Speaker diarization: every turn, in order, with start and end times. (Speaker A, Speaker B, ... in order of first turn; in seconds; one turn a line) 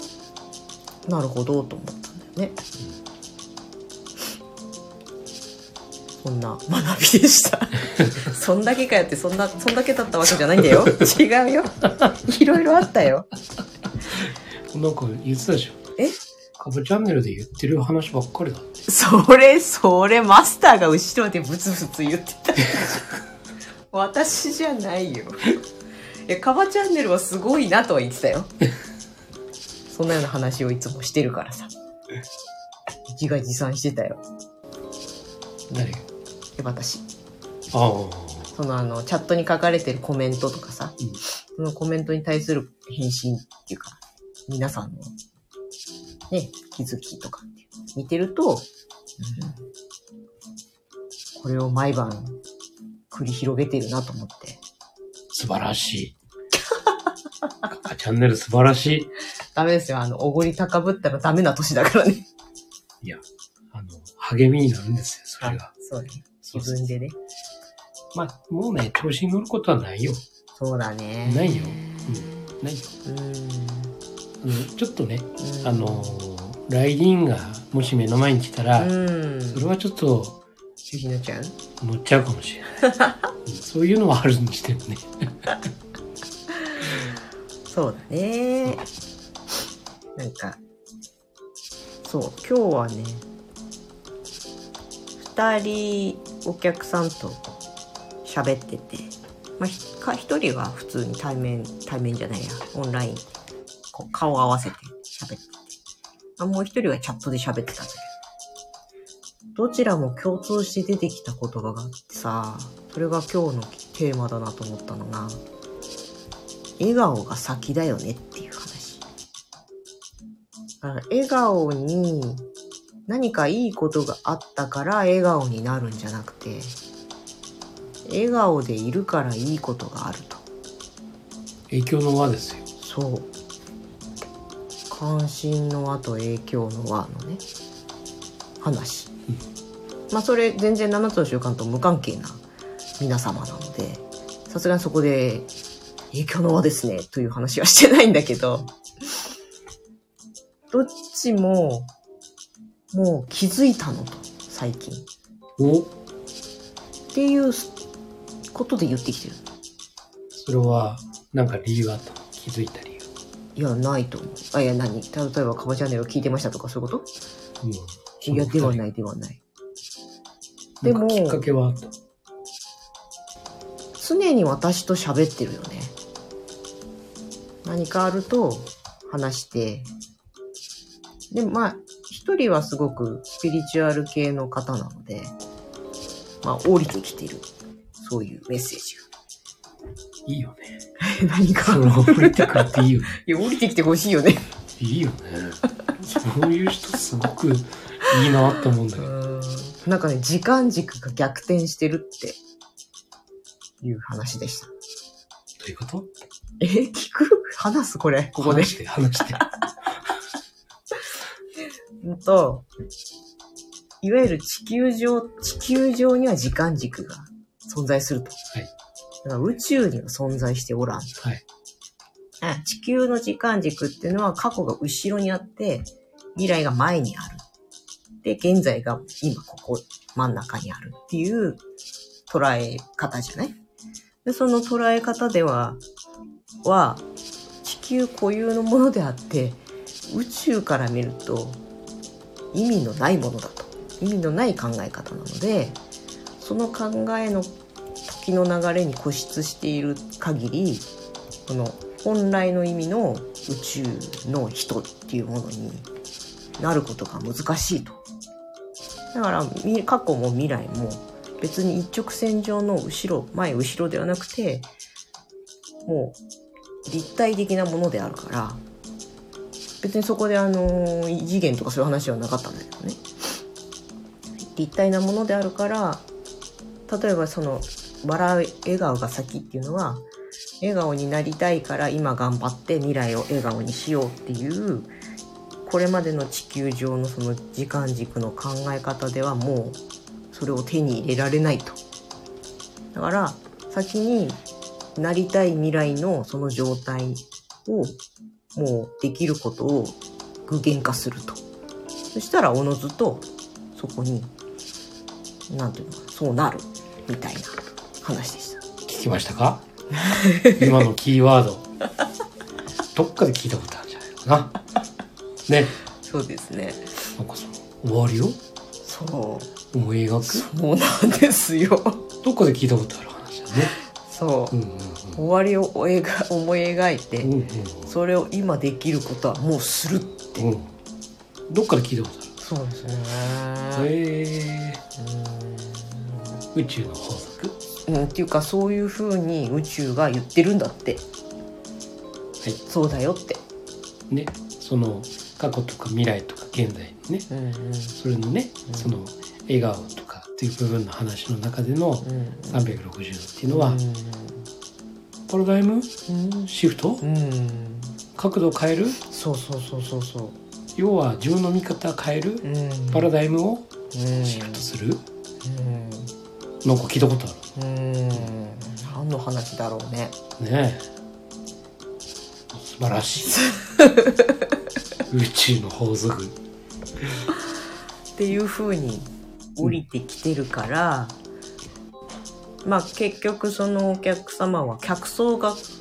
Speaker A: 1.1-2.6
Speaker A: 6.2-13.3
Speaker B: 14.2-15.9
Speaker B: 16.6-18.8
Speaker A: 18.9-23.1
Speaker A: 23.9-25.6
Speaker A: 26.3-28.5
Speaker A: 29.9-31.7
Speaker A: 33.1-34.2
Speaker A: 35.7-36.0
Speaker B: 35.7-36.0
Speaker A: 36.6-37.0
Speaker B: 37.7-38.5
Speaker A: 38.5-41.0
Speaker A: 41.5-45.1
Speaker A: 46.3-48.7
Speaker A: 49.2-49.6
Speaker A: 51.4-52.4
Speaker A: 53.1-54.6
Speaker B: 55.3-56.1
Speaker B: 57.7-59.1
Speaker A: 59.5-62.3
Speaker B: 63.0-65.7
Speaker A: 65.4-67.2
Speaker B: 66.4-66.9
Speaker B: 68.1-70.2
Speaker A: 70.5-72.5
Speaker B: 71.2-72.9
Speaker A: 73.0-73.9
Speaker B: 74.4-78.9
Speaker A: 75.4-76.2
Speaker A: 78.8-79.7
Speaker B: 79.5-80.4
Speaker A: 80.8-81.5
Speaker B: 81.8-82.8
Speaker A: 82.8-83.2
Speaker B: 83.5-85.5
Speaker A: 87.7-88.8
Speaker A: 90.2-90.6
Speaker A: 92.0-93.2
Speaker A: 95.2-97.4
Speaker A: 98.2-103.2
Speaker A: 103.9-105.6
Speaker A: 106.4-108.1
Speaker A: 109.5-115.4
Speaker A: 116.8-119.0
Speaker A: 120.8-122.4
Speaker A: 123.1-126.8
Speaker A: 128.1-130.4
Speaker B: 131.7-132.6
Speaker A: 132.8-133.3
Speaker A: 134.9-137.4
Speaker A: 138.6-139.1
Speaker A: 140.1-142.4
Speaker A: 143.0-145.5
Speaker A: 146.1-148.7
Speaker A: 150.7-151.9
Speaker A: 152.9-155.1
Speaker B: 155.6-155.9
Speaker A: 157.1-157.7
Speaker A: 158.5-159.4
Speaker B: 160.3-163.1
Speaker A: 163.6-167.1
Speaker B: 167.6-168.8
Speaker A: 168.2-169.4
Speaker B: 170.8-171.9
Speaker A: 170.8-171.4
Speaker A: 174.0-175.9
Speaker A: 177.6-179.9
Speaker A: 181.3-185.3
Speaker A: 186.4-187.5
Speaker A: 188.0-189.1
Speaker B: 190.2-190.8
Speaker A: 191.0-194.5
Speaker B: 191.6-193.1
Speaker B: 194.8-199.1
Speaker A: 199.0-202.4
Speaker A: 203.8-204.7
Speaker B: 205.6-206.1
Speaker A: 206.6-208.8
Speaker B: 208.4-209.4
Speaker A: 212.0-212.7
Speaker A: 214.0-218.4
Speaker A: 219.2-221.2
Speaker A: 222.4-227.4
Speaker A: 228.2-231.6
Speaker A: 232.3-233.6
Speaker A: 234.2-235.8
Speaker A: 236.6-237.0
Speaker A: 237.6-241.6
Speaker A: 242.5-245.8
Speaker A: 246.4-247.5
Speaker A: 248.1-250.8
Speaker A: 251.5-255.9
Speaker A: 256.6-258.0
Speaker A: 259.1-264.7
Speaker A: 265.9-266.2
Speaker A: 266.9-268.6
Speaker A: 269.8-273.0
Speaker A: 274.5-276.0
Speaker A: 276.9-280.0
Speaker A: 280.6-284.9
Speaker A: 285.6-289.8
Speaker A: 290.3-291.8
Speaker A: 292.9-294.4
Speaker A: 294.9-298.0
Speaker A: 298.5-301.4
Speaker A: 302.1-304.3
Speaker A: 305.5-308.6
Speaker B: 308.9-309.6
Speaker A: 309.9-310.9
Speaker B: 310.6-311.7
Speaker B: 312.9-314.6
Speaker B: 315.5-315.8
Speaker A: 316.0-317.1
Speaker B: 317.2-318.4
Speaker A: 318.8-319.5
Speaker B: 319.7-320.5
Speaker A: 320.2-322.1
Speaker B: 322.2-323.7
Speaker A: 323.9-324.6
Speaker B: 324.5-325.2
Speaker A: 325.1-327.3
Speaker B: 327.2-327.9
Speaker A: 327.9-330.4
Speaker B: 330.4-330.7
Speaker B: 331.5-332.3
Speaker A: 332.4-333.9
Speaker B: 333.7-334.8
Speaker A: 335.0-336.4
Speaker B: 336.5-337.6
Speaker A: 337.9-341.0
Speaker A: 342.6-343.4
Speaker B: 344.1-347.3
Speaker A: 347.3-347.9
Speaker B: 347.9-353.8
Speaker A: 352.0-352.8
Speaker A: 353.5-354.4
Speaker B: 355.3-355.9
Speaker A: 356.1-357.9
Speaker B: 356.5-357.0
Speaker B: 358.1-359.0
Speaker A: 359.0-360.4
Speaker B: 360.8-363.7
Speaker A: 362.4-363.1
Speaker A: 363.9-364.6
Speaker B: 364.2-365.0
Speaker A: 365.4-366.1
Speaker B: 366.6-367.4
Speaker A: 367.6-370.1
Speaker B: 370.4-370.9
Speaker B: 372.5-373.4
Speaker A: 373.3-374.3
Speaker B: 375.1-376.4
Speaker A: 378.1-381.1
Speaker A: 382.6-385.6